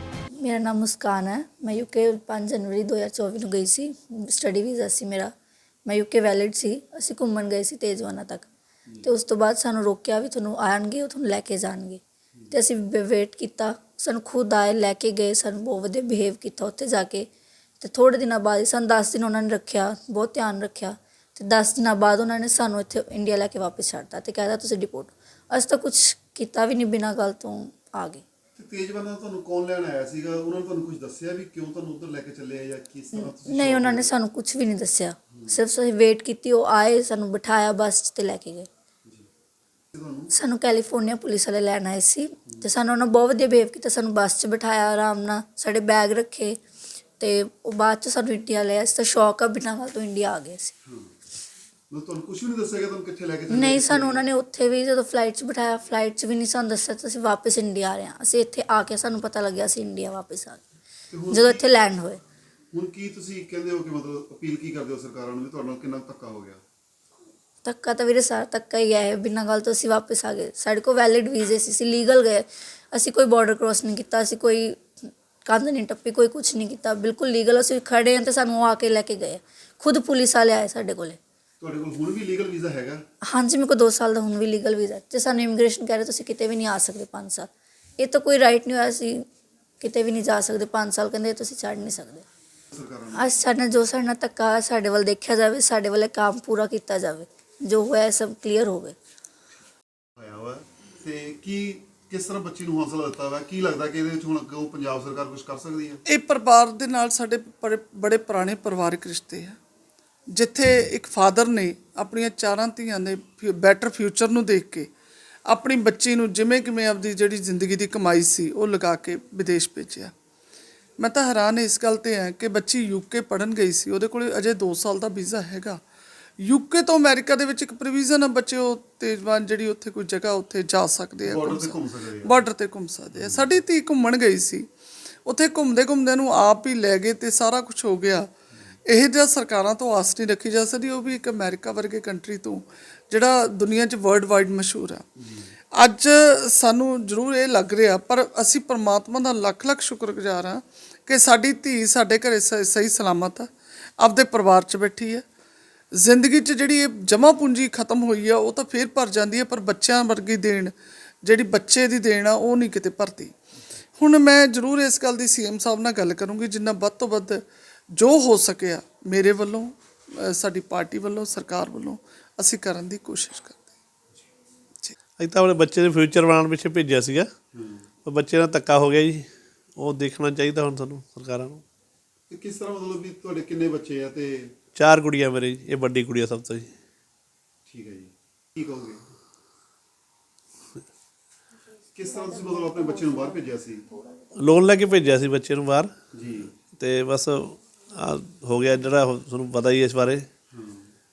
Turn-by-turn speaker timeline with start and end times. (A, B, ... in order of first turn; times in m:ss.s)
0:00.4-0:05.3 A
0:05.8-0:08.5 A
0:09.0-0:17.3 A
0:17.8-0:28.2 A
0:28.5-0:34.1 B
0:33.2-0:38.7 A
0:39.9-0:40.3 B
0:40.3-0:46.6 A
0:47.2-0:50.7 A
0:50.8-0:51.1 B
0:51.9-0:54.2 B
0:53.5-1:00.6 A
1:01.1-1:01.6 B
1:01.3-1:02.2 A
1:02.7-1:06.6 B
1:07.6-1:21.2 A
1:21.6-1:23.0 B
1:23.3-1:29.2 A
1:29.8-1:32.2 A
1:32.7-1:33.3 B
1:33.1-1:39.0 A
1:40.2-1:46.0 B
1:46.0-1:49.6 C
1:50.3-1:54.9 C
1:55.5-2:00.1 C
2:01.0-2:05.8 C
2:06.4-2:14.7 C
2:11.2-2:12.4 B
2:13.2-2:13.6 B
2:15.2-2:18.3 C
2:18.8-2:25.1 C
2:25.2-2:25.5 B
2:25.7-2:35.2 C
2:35.9-2:43.3 C
2:44.0-2:53.6 C
2:55.2-2:57.3 D
2:57.5-2:57.8 B
2:58.0-2:59.2 D
2:59.8-3:01.6 D
3:02.3-3:04.5 B
3:04.8-3:06.7 D
3:07.6-3:09.0 B
3:11.9-3:13.8 B
3:12.1-3:13.3 A
3:14.4-3:15.9 D
3:16.1-3:16.6 B
3:16.8-3:20.2 D
3:20.5-3:20.9 B